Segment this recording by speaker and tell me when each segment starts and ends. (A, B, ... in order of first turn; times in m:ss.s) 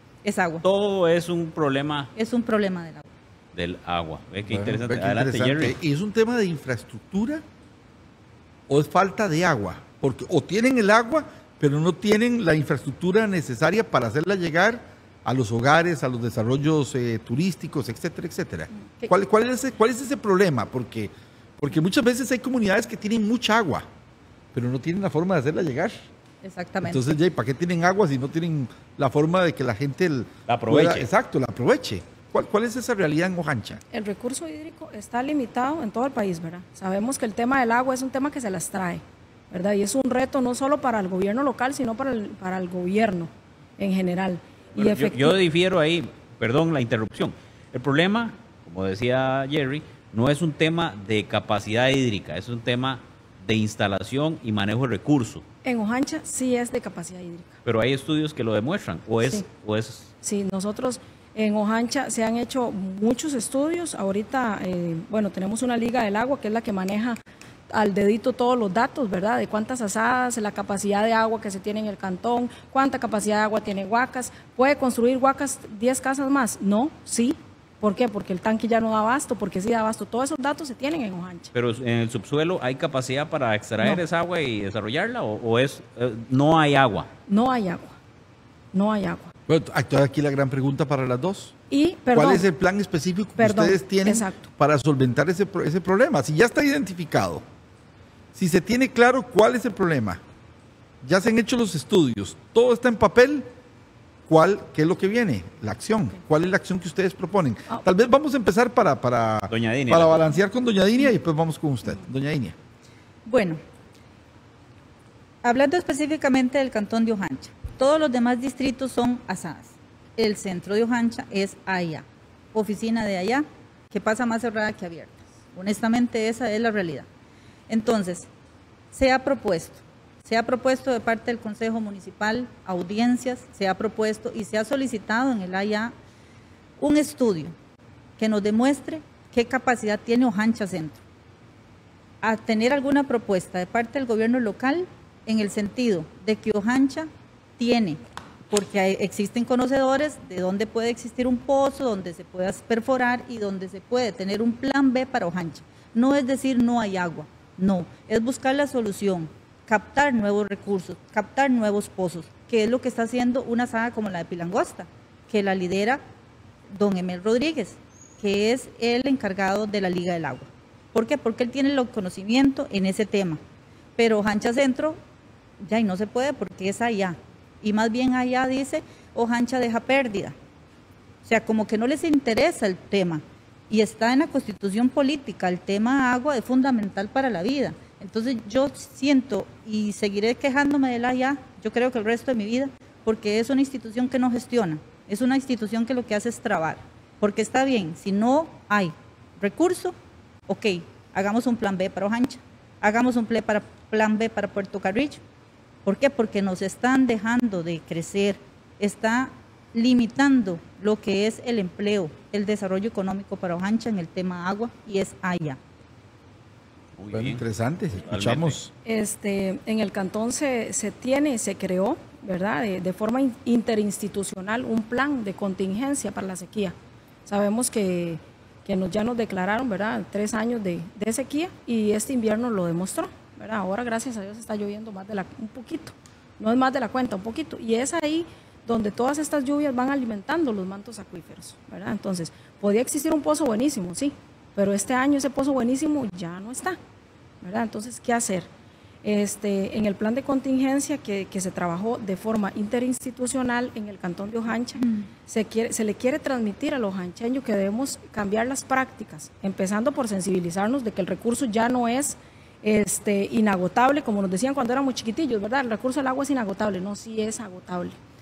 0:00.2-0:00.6 A
0:00.6-0:02.1 B
0:02.1-0:03.1 A
0:03.5-0:05.7 B
0:04.5-0:07.4 C
0:08.7-0:23.8 C
0:24.5-0:26.0 C
0:26.4-0:27.0 A
0:26.8-0:33.8 C
0:30.5-0:31.1 B
0:33.9-0:45.4 D
0:44.7-0:55.4 B
0:55.6-0:57.6 D
0:57.6-1:00.1 B
1:00.2-1:07.2 D
1:07.7-1:21.5 D
1:21.5-1:27.1 B
1:27.3-1:28.0 D
1:28.7-1:29.3 D
1:29.5-1:31.5 C
1:31.7-1:32.4 D
1:32.1-1:37.4 C
1:33.4-1:34.5 D
1:38.3-1:40.2 C
1:41.0-1:43.4 C
1:44.3-1:52.6 C
1:49.5-1:50.3 B
1:53.2-1:53.6 A
1:55.4-2:07.1 A
2:07.7-2:08.3 A
2:08.9-2:15.9 A
2:16.8-2:17.5 A
2:18.2-2:21.0 A
2:22.2-2:46.0 A
2:46.7-2:53.4 A
2:54.0-2:55.0 A
2:55.6-3:00.3 A
3:01.2-3:19.9 A
3:20.5-3:25.2 A
3:25.8-3:35.6 A
3:37.0-3:37.4 B
3:37.1-3:38.7 C
3:38.1-3:38.6 B
3:38.8-3:46.7 D
3:47.2-4:06.8 D
4:07.4-4:08.5 D
4:09.0-4:28.0 D